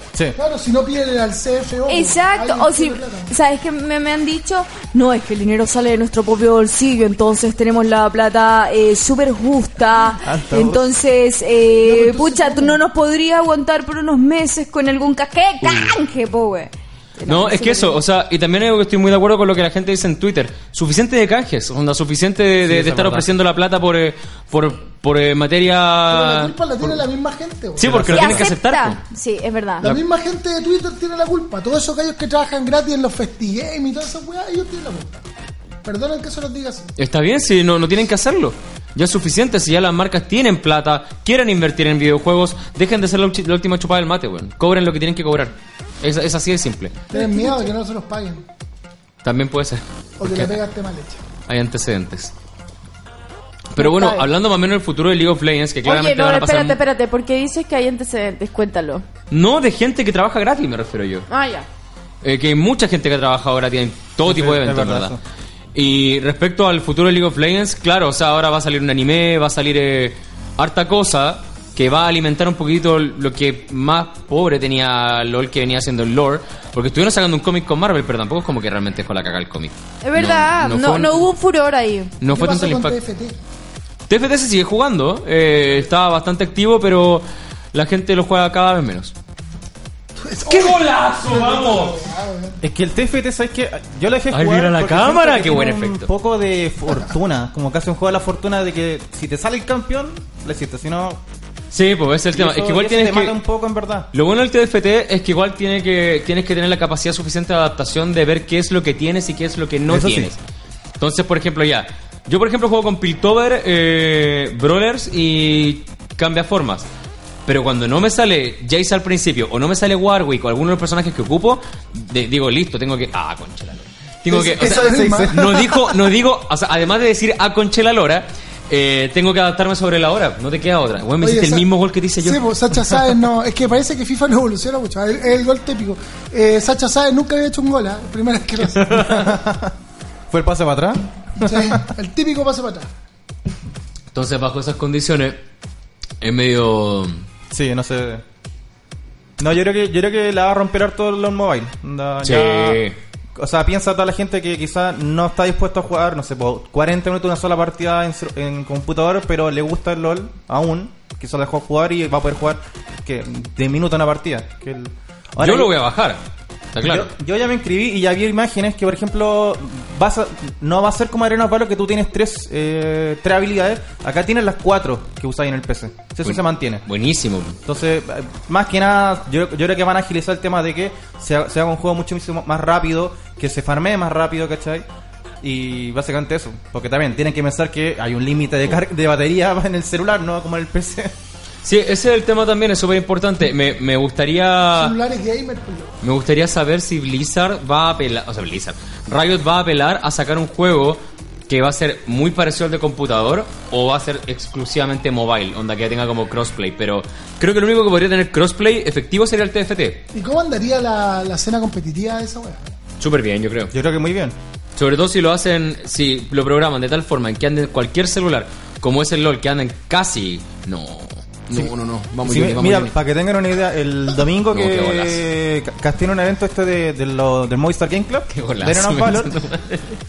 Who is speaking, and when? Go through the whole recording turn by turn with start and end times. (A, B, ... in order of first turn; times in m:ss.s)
0:00.4-0:03.3 A
0:01.9-0:18.0 B
0:10.2-0:10.9 C
0:11.8-0:12.8 A
0:17.3-0:27.0 D
0:22.6-0:23.3 C
0:26.1-0:28.0 A
0:27.8-0:29.0 D
0:27.8-0:28.5 C
0:28.1-0:30.0 B
0:29.8-0:35.3 A
0:35.8-0:36.9 A
0:37.0-0:47.0 D
0:47.1-0:48.5 A
0:47.1-0:47.6 B
0:49.2-0:50.6 D
0:50.2-0:51.2 A
0:51.5-0:52.3 D
0:53.7-0:56.8 D
0:53.8-0:54.3 B
0:55.8-0:59.0 B
0:59.3-1:01.2 D
1:01.3-1:01.7 B
1:02.2-1:05.2 D
1:04.2-1:05.2 C
1:05.7-1:21.3 D
1:20.0-1:22.1 B
1:22.2-1:23.0 D
1:22.3-1:23.4 A
1:24.1-1:29.1 D
1:30.2-1:32.6 A
1:30.4-1:32.0 D
1:32.6-1:41.2 C
1:34.3-1:36.1 D
1:41.7-1:43.4 D
1:42.3-1:44.1 C
1:44.1-1:50.4 D
1:49.9-1:50.3 C
1:51.0-1:56.9 D
1:57.5-2:12.9 D
2:04.3-2:05.6 A
2:04.5-2:06.0 C
2:11.2-2:19.3 A
2:18.8-2:19.1 D
2:18.9-2:19.7 C
2:20.3-2:21.8 C
2:21.4-2:22.9 A
2:24.1-2:25.4 D
2:26.2-2:27.2 D
2:27.5-2:28.2 C
2:29.4-2:32.8 C
2:32.2-2:33.0 D
2:33.4-2:45.7 C
2:45.4-2:47.1 D
2:46.8-2:56.8 C
2:56.2-2:57.6 D
2:57.7-3:04.8 C
3:05.4-3:11.1 C
3:11.6-3:15.0 D
3:14.7-3:16.0 A
3:16.0-3:30.0 D
3:30.1-3:32.7 A
3:33.0-3:33.7 D
3:33.7-3:34.4 C
3:34.8-3:43.0 D
3:42.2-3:49.4 C
3:44.5-3:45.2 D
3:48.3-3:50.0 D